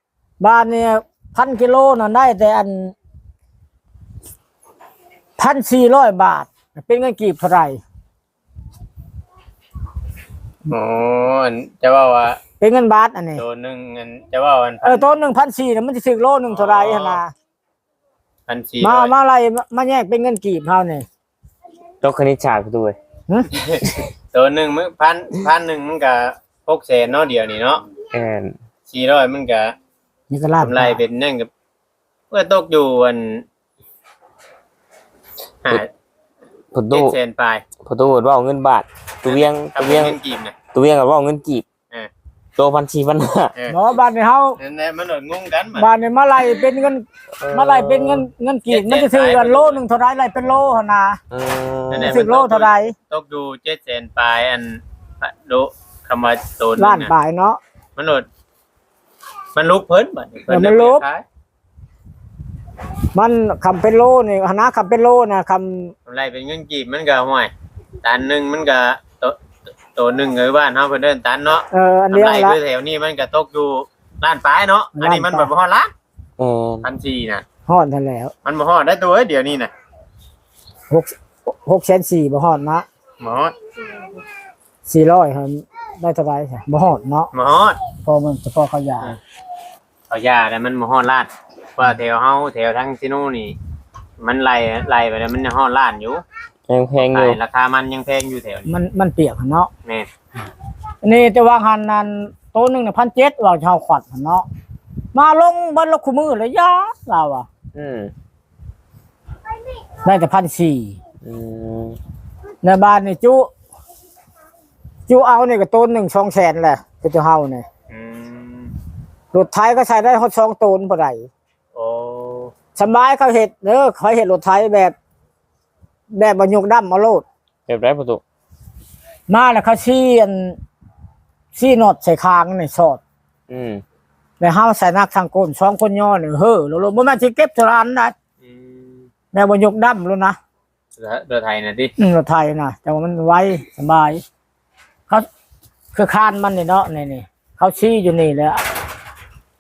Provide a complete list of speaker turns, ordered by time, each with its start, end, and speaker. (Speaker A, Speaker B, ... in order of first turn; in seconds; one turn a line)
Speaker A: 0.4-2.9
Speaker A: 5.4-7.8
Speaker B: 10.7-12.4
Speaker A: 12.6-13.4
Speaker B: 13.4-15.1
Speaker A: 14.8-17.3
Speaker B: 16.5-17.2
Speaker B: 18.5-19.1
Speaker A: 18.8-21.1
Speaker C: 22.0-23.0
Speaker B: 23.5-27.8
Speaker C: 28.1-28.6
Speaker B: 28.9-29.8
Speaker A: 30.3-31.0
Speaker B: 30.6-31.5
Speaker B: 32.3-33.4
Speaker C: 36.7-37.2
Speaker B: 36.9-37.7
Speaker C: 37.8-40.2
Speaker B: 39.2-40.6
Speaker C: 40.7-41.6
Speaker C: 42.6-43.5
Speaker A: 43.7-44.6
Speaker B: 44.6-45.9
Speaker A: 45.8-51.2
Speaker C: 47.4-48.3
Speaker B: 48.7-49.8
Speaker C: 51.3-52.2
Speaker B: 51.9-57.1
Speaker A: 52.0-53.0
Speaker A: 56.8-57.6
Speaker B: 58.0-58.3
Speaker B: 59.5-61.2
Speaker A: 60.5-61.0
Speaker A: 63.1-65.9
Speaker B: 66.1-67.5
Speaker B: 68.0-69.4
Speaker B: 69.9-75.9
Speaker A: 71.7-72.6
Speaker A: 75.0-75.5
Speaker C: 76.4-76.9
Speaker B: 76.8-77.5
Speaker A: 77.7-78.3
Speaker B: 78.4-79.7
Speaker A: 80.9-82.9
Speaker B: 83.2-83.5
Speaker A: 84.9-87.3
Speaker B: 87.3-87.8
Speaker A: 88.0-89.2
Speaker B: 90.1-93.5
Speaker B: 94.2-96.2
Speaker C: 96.7-97.4
Speaker B: 97.0-98.7
Speaker A: 98.7-99.7
Speaker A: 101.0-104.5
Speaker A: 105.1-107.5
Speaker C: 107.8-108.1
Speaker A: 110.0-111.0
Speaker C: 111.2-112.0
Speaker A: 112.6-113.5
Speaker A: 115.1-117.7
Speaker B: 117.9-118.7
Speaker A: 119.3-121.3
Speaker B: 121.8-122.5
Speaker A: 122.8-125.0
Speaker A: 126.1-127.2
Speaker C: 127.7-128.2
Speaker A: 129.3-130.6
Speaker A: 131.6-133.0
Speaker C: 133.5-133.8
Speaker A: 134.4-138.1
Speaker B: 138.4-139.1
Speaker A: 139.3-140.4
Speaker B: 141.0-141.9
Speaker A: 142.0-144.2
Speaker A: 145.9-148.6